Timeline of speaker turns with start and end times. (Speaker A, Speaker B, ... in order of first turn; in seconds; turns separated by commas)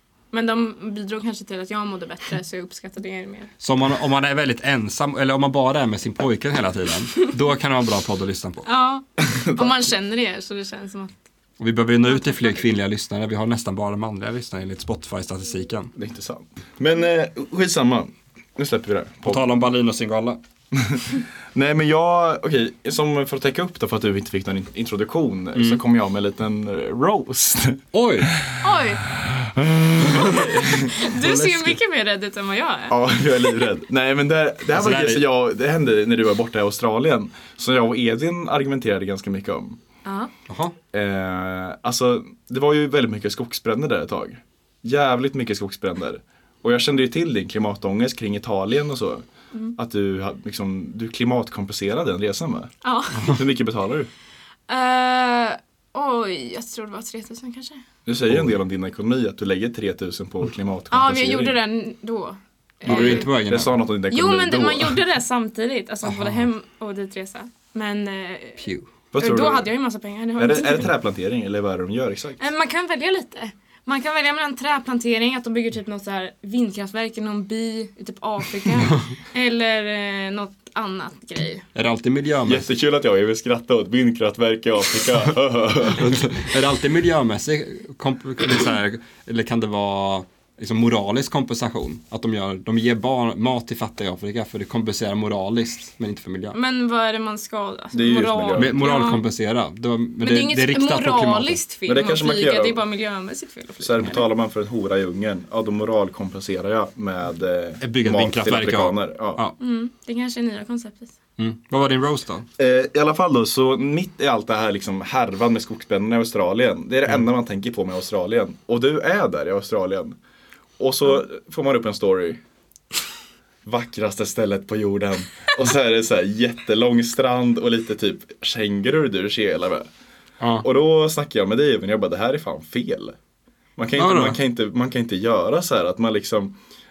Speaker A: 0.3-3.5, Speaker B: 3.6-8.7, Speaker A: 8.7-11.2, Speaker C: 9.2-9.7, Speaker B: 11.6-15.9, Speaker A: 12.1-12.6, Speaker C: 16.0-19.5, Speaker B: 19.2-20.4, Speaker C: 20.7-27.8, Speaker B: 25.6-25.8, Speaker B: 27.9-28.3, Speaker A: 28.6-29.0, Speaker C: 29.2-30.9, Speaker B: 30.1-31.8, Speaker A: 30.9-33.6, Speaker C: 32.9-39.8, Speaker B: 34.7-35.2, Speaker A: 40.0-40.3, Speaker B: 40.5-40.7, Speaker C: 40.9-52.7, Speaker A: 52.8-53.4, Speaker C: 53.3-54.1, Speaker A: 54.7-57.8, Speaker C: 58.1-61.6, Speaker A: 60.9-63.3, Speaker B: 62.9-63.8, Speaker C: 62.9-65.0, Speaker A: 64.1-68.7, Speaker B: 66.0-66.5, Speaker B: 68.6-68.9, Speaker C: 69.1-69.7, Speaker A: 69.2-70.9, Speaker C: 70.4-72.4, Speaker A: 72.4-81.7, Speaker B: 81.8-82.7, Speaker C: 82.5-86.4, Speaker B: 85.9-96.6, Speaker A: 96.5-99.2, Speaker C: 97.9-98.7, Speaker B: 98.6-101.6, Speaker A: 100.2-104.2, Speaker C: 101.9-102.8, Speaker C: 103.8-109.4, Speaker B: 107.8-109.6, Speaker A: 109.6-111.2, Speaker B: 111.4-112.5, Speaker C: 112.6-120.2, Speaker C: 120.8-122.4, Speaker C: 123.7-129.9, Speaker C: 130.6-133.2, Speaker C: 133.8-136.6, Speaker B: 134.0-134.4